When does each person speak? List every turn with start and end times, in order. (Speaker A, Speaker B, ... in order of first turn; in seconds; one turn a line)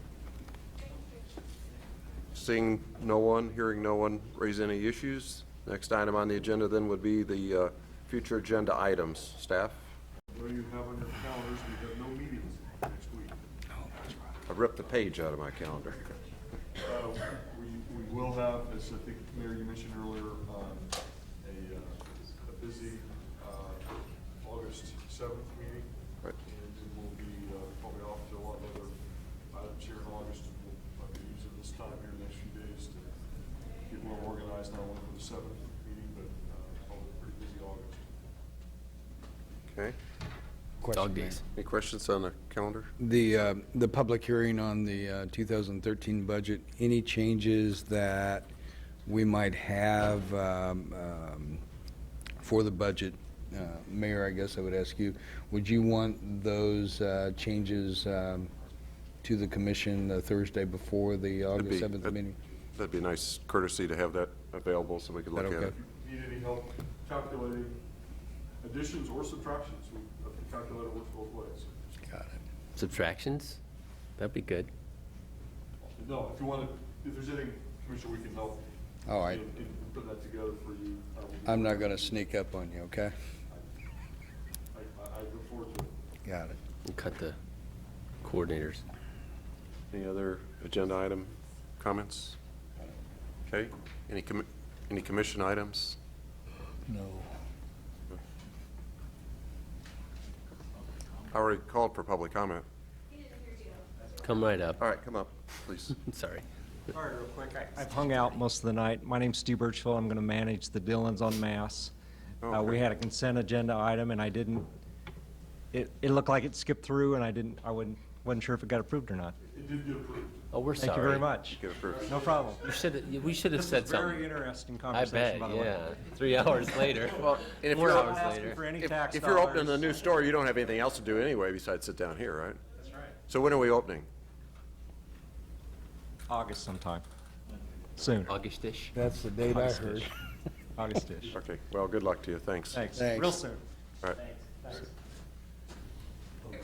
Speaker A: 2.3-9.8
Speaker B: 10.3-13.3
Speaker C: 13.8-14.1
Speaker A: 14.5-16.1
Speaker B: 16.8-25.9
Speaker B: 26.4-33.1
Speaker B: 33.8-38.1
Speaker A: 39.7-40.0
Speaker C: 40.8-41.4
Speaker D: 40.9-41.4
Speaker A: 41.5-42.9
Speaker C: 43.0-48.5
Speaker C: 49.0-51.6
Speaker C: 52.4-58.5
Speaker C: 59.2-62.4
Speaker A: 61.5-62.2
Speaker A: 62.7-65.7
Speaker C: 65.3-65.7
Speaker B: 65.7-67.8
Speaker B: 68.6-71.8
Speaker C: 72.0-72.4
Speaker D: 72.8-73.6
Speaker D: 74.2-74.7
Speaker B: 75.8-78.6
Speaker C: 79.1-79.4
Speaker B: 79.2-82.2
Speaker C: 81.4-83.1
Speaker B: 84.7-85.9
Speaker C: 86.2-86.6
Speaker D: 86.8-87.4
Speaker D: 88.2-88.8
Speaker A: 89.9-92.4
Speaker A: 93.5-96.0
Speaker C: 96.9-97.3
Speaker A: 101.3-102.7
Speaker D: 104.2-104.8
Speaker A: 104.8-106.0
Speaker D: 106.0-106.4
Speaker E: 106.9-111.9
Speaker A: 112.4-112.8
Speaker E: 112.5-114.7
Speaker E: 115.7-119.3
Speaker B: 119.4-120.4
Speaker D: 120.5-121.3
Speaker E: 120.8-122.6
Speaker A: 121.5-122.1
Speaker B: 121.8-122.9
Speaker D: 122.6-128.6
Speaker E: 123.4-126.0
Speaker A: 127.1-128.2
Speaker E: 127.6-130.1
Speaker A: 128.8-132.6
Speaker E: 132.8-133.1
Speaker A: 133.3-134.1
Speaker E: 136.3-137.0
Speaker E: 138.0-138.3
Speaker D: 138.2-138.9
Speaker C: 138.9-140.1
Speaker D: 139.5-140.0
Speaker E: 140.8-141.3
Speaker A: 141.3-142.8
Speaker E: 142.7-143.6
Speaker C: 142.9-143.4
Speaker E: 144.4-144.9